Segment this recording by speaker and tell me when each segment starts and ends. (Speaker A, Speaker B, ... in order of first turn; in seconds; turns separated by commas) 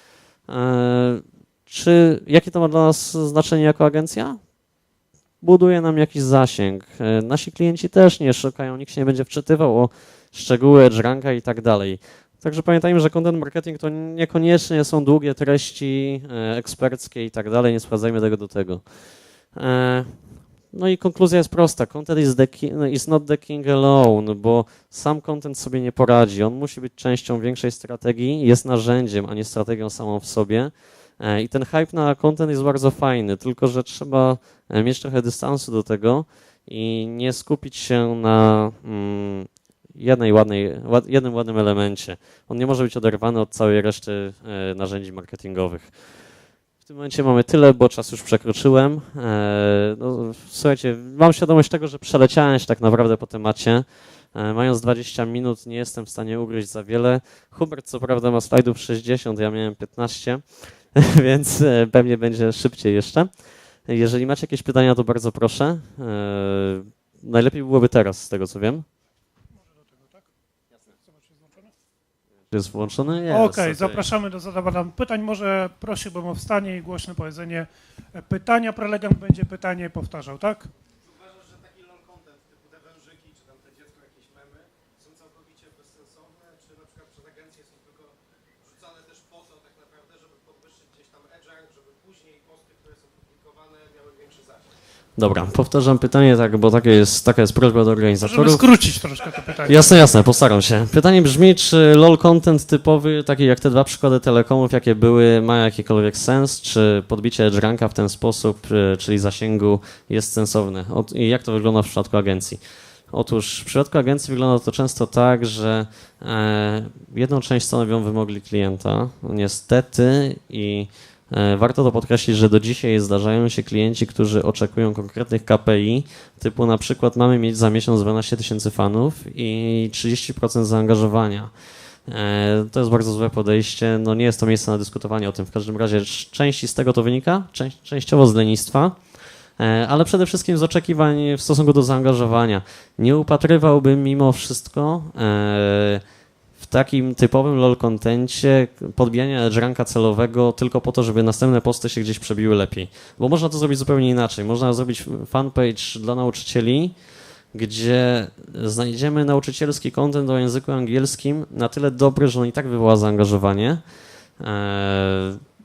Speaker A: 0.5-4.4, Speaker A: 5.4-18.8, Speaker A: 19.5-20.1, Speaker A: 20.7-45.9, Speaker A: 46.8-63.3, Speaker A: 63.9-68.8, Speaker B: 69.7-70.2, Speaker B: 70.9-71.7, Speaker A: 72.5-74.0, Speaker B: 73.3-80.7, Speaker C: 81.0-94.7, Speaker A: 95.2-98.6, Speaker B: 98.2-99.9, Speaker A: 99.7-112.6, Speaker A: 113.1-131.5, Speaker A: 132.1-139.0, Speaker A: 139.6-146.0, Speaker A: 146.6-156.9, Speaker A: 157.5-163.8, Speaker A: 164.4-165.4